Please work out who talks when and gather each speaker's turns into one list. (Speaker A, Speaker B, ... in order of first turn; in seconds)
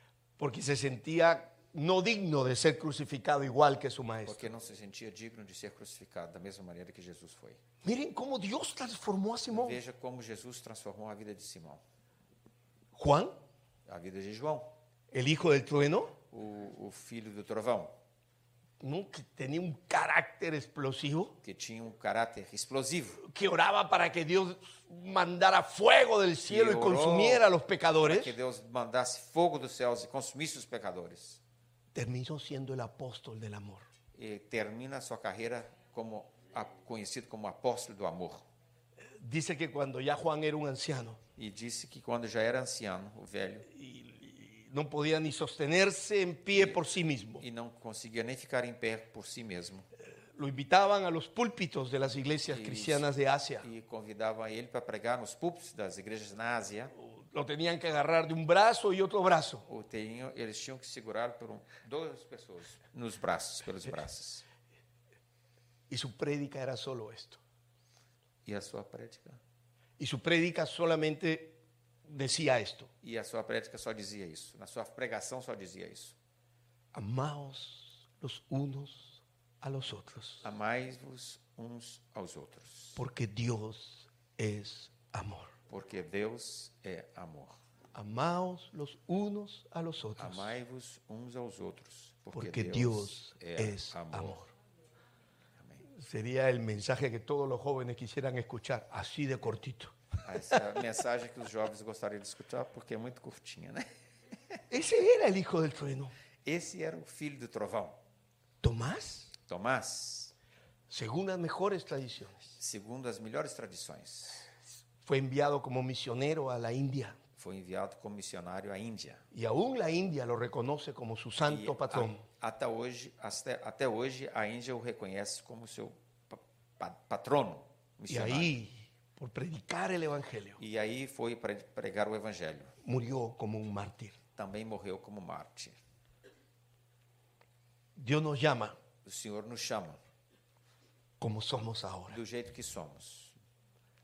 Speaker A: 0.4-4.5, 7.8-9.8, 12.9-13.4, 15.1-16.2, 18.8-21.4, 23.2-28.4, 31.9-33.9, 39.0-41.2, 43.7-47.4, 50.3-53.7, 57.0-59.6, 65.9-67.4, 70.0-72.9, 76.9-80.4, 83.0-85.5, 87.9-90.5, 92.3-94.5, 95.9-100.0, 104.7-106.1, 108.6-109.3, 110.9-112.5, 115.0-117.2, 119.3-122.2, 128.1-130.6, 132.8-134.2, 137.9-138.8, 141.2-142.2
Speaker B: 4.2-7.6, 9.5-11.8, 13.8-14.7, 16.3-18.0, 21.4-23.2, 26.5-27.4, 28.0-31.4, 34.1-38.5, 41.4-43.7, 46.5-46.8, 47.4-49.9, 52.5-53.1, 53.6-56.9, 59.7-64.4, 68.5-69.4, 73.0-76.2, 80.4-83.0, 85.7-87.6, 90.2-94.4, 95.6-95.8, 100.2-103.9, 106.4-108.0, 109.4-110.3, 112.5-114.5, 117.4-119.2, 121.5-128.5, 130.6-132.7, 134.3-135.8, 139.0-140.0, 142.1-143.3